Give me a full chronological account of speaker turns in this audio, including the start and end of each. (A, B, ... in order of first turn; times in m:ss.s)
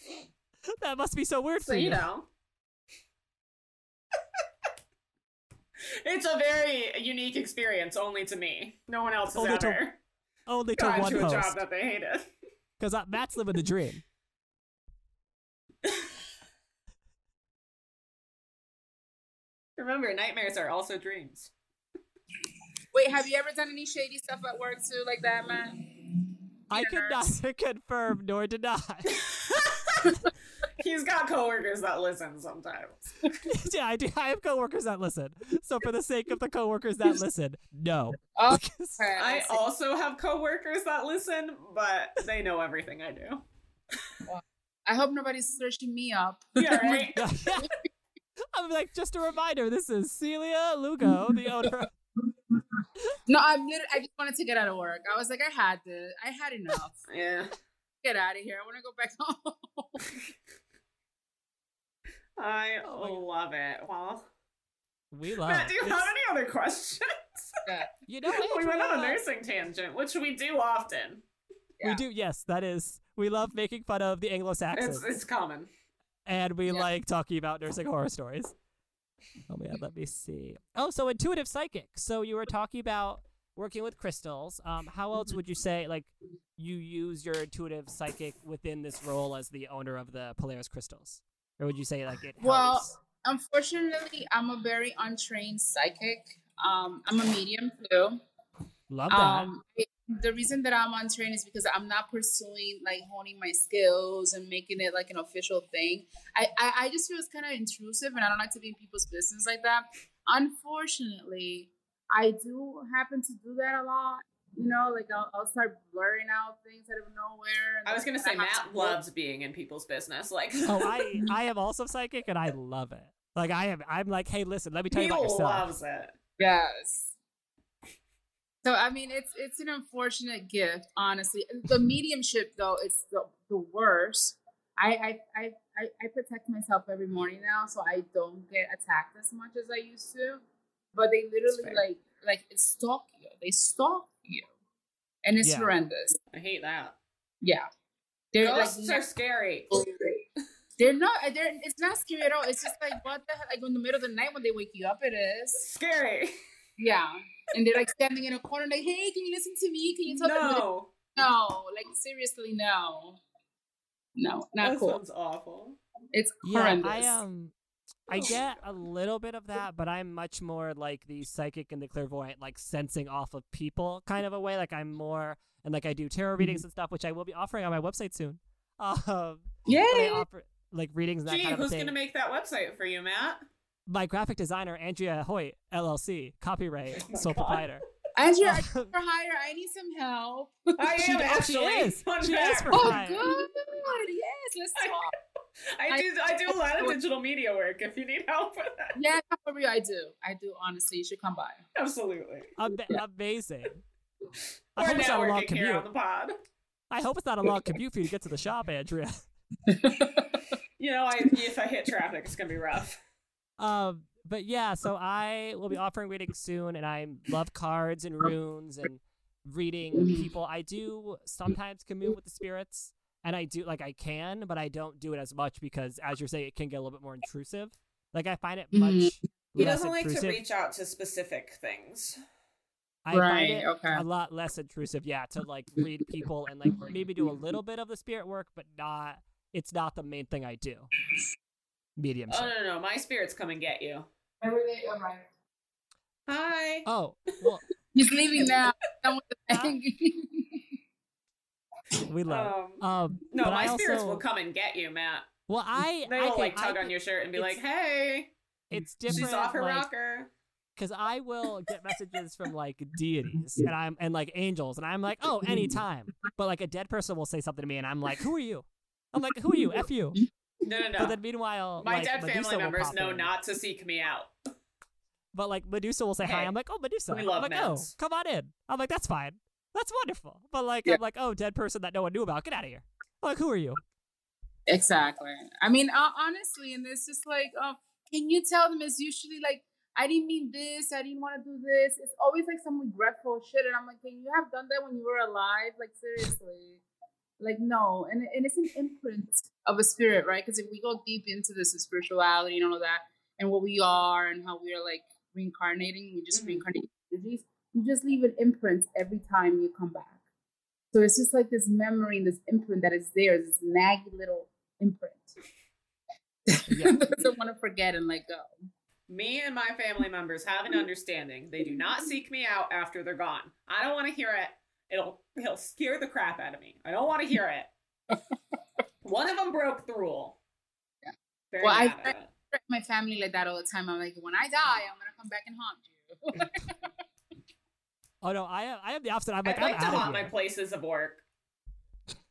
0:00.8-0:02.0 A
0:01.6-0:02.3 B
0:05.9-0:10.0 B
0:09.3-0:09.8 A
0:10.5-0:11.6 A
0:10.8-0:12.3 B
0:12.8-0:14.0 A
0:19.8-0:21.5 B
0:22.9-0:25.8 C
0:26.7-0:29.2 A
0:26.7-0:27.2 C
0:29.1-0:30.2 B
0:30.8-0:33.3 B
0:33.5-0:39.0 A
0:38.3-0:39.6 C
0:39.2-0:43.4 B
0:44.3-0:47.7 C
0:46.6-0:47.3 B
0:47.2-0:47.7 A
0:48.5-0:51.9 A
0:51.4-0:51.7 C
0:53.2-0:57.0 C
0:57.0-0:57.5 B
0:58.0-1:00.1 C
1:02.4-1:04.2 B
1:02.8-1:03.2 A
1:05.1-1:06.1 A
1:05.4-1:07.5 B
1:08.1-1:09.2 A
1:08.3-1:11.2 B
1:11.8-1:15.1 A
1:14.7-1:15.7 B
1:16.2-1:18.5 A
1:19.5-1:32.9 A
1:32.4-1:38.2 C
1:38.9-1:39.5 A
1:39.1-1:59.0 C
1:57.8-2:00.9 B
2:00.6-2:05.7 A
2:04.9-2:06.1 B
2:06.4-2:07.1 C
2:08.6-2:20.4 C
2:20.9-2:24.5 C
2:21.5-2:21.8 B
2:25.2-2:26.2 C
2:25.4-2:25.7 A
2:26.3-2:27.0 B
2:27.4-2:27.7 C
2:28.3-2:29.0 C
2:28.4-2:29.7 B
2:29.7-2:30.2 C
2:30.8-2:35.6 C
2:35.6-2:36.3 B
2:36.8-2:43.2 C
2:40.2-2:40.9 B
2:44.2-2:45.0 C
2:44.6-2:45.8 B
2:46.1-2:47.2 C
2:46.4-2:47.5 A
2:48.1-3:01.9 A
2:48.2-2:48.5 B
2:59.6-3:00.2 C
3:01.3-3:03.4 B
3:03.9-3:07.8 A
3:07.0-3:07.7 B
3:08.1-3:10.9 C
3:08.4-3:08.9 A
3:10.8-3:13.0 B
3:11.0-3:13.2 A
3:12.7-3:15.1 C
3:15.7-3:19.0 B
3:15.9-3:17.0 C
3:18.9-3:21.6 C
3:21.7-3:22.5 B
3:22.6-3:23.8 A
3:24.8-3:25.8 A
3:24.8-3:26.3 B
3:26.9-3:29.2 A
3:29.6-3:30.4 C
3:30.8-3:33.0 B
3:33.6-3:50.4 A
3:39.9-3:40.3 C
3:48.7-3:49.2 C
3:49.6-3:52.2 B
3:53.0-4:00.9 A
3:53.1-3:54.0 C
3:56.6-3:57.0 C
4:02.0-4:02.5 A
4:02.3-4:04.1 B
4:04.4-4:05.2 C
4:06.3-4:06.9 B
4:06.8-4:07.6 A
4:07.9-4:10.6 C
4:09.5-4:09.7 A
4:12.1-4:14.2 A
4:12.3-4:15.3 B
4:15.5-4:17.6 A
4:16.0-4:18.3 B
4:18.7-4:19.9 A
4:19.1-4:20.3 B
4:20.8-4:30.2 A
4:25.4-4:25.7 C
4:30.6-4:31.2 B
4:31.0-4:33.3 A
4:31.8-4:34.3 B
4:35.3-4:43.8 A
4:36.2-4:36.5 B
4:37.1-4:37.9 B
4:44.7-4:56.8 C
4:57.4-5:10.2 C
5:06.3-5:06.6 B
5:10.9-5:15.4 C
5:16.5-5:18.5 C
5:16.7-5:17.0 A
5:19.1-5:27.7 B
5:29.0-5:30.4 B
5:31.0-5:36.9 C
5:31.5-5:32.3 B
5:38.2-5:40.3 A
5:39.4-5:41.2 B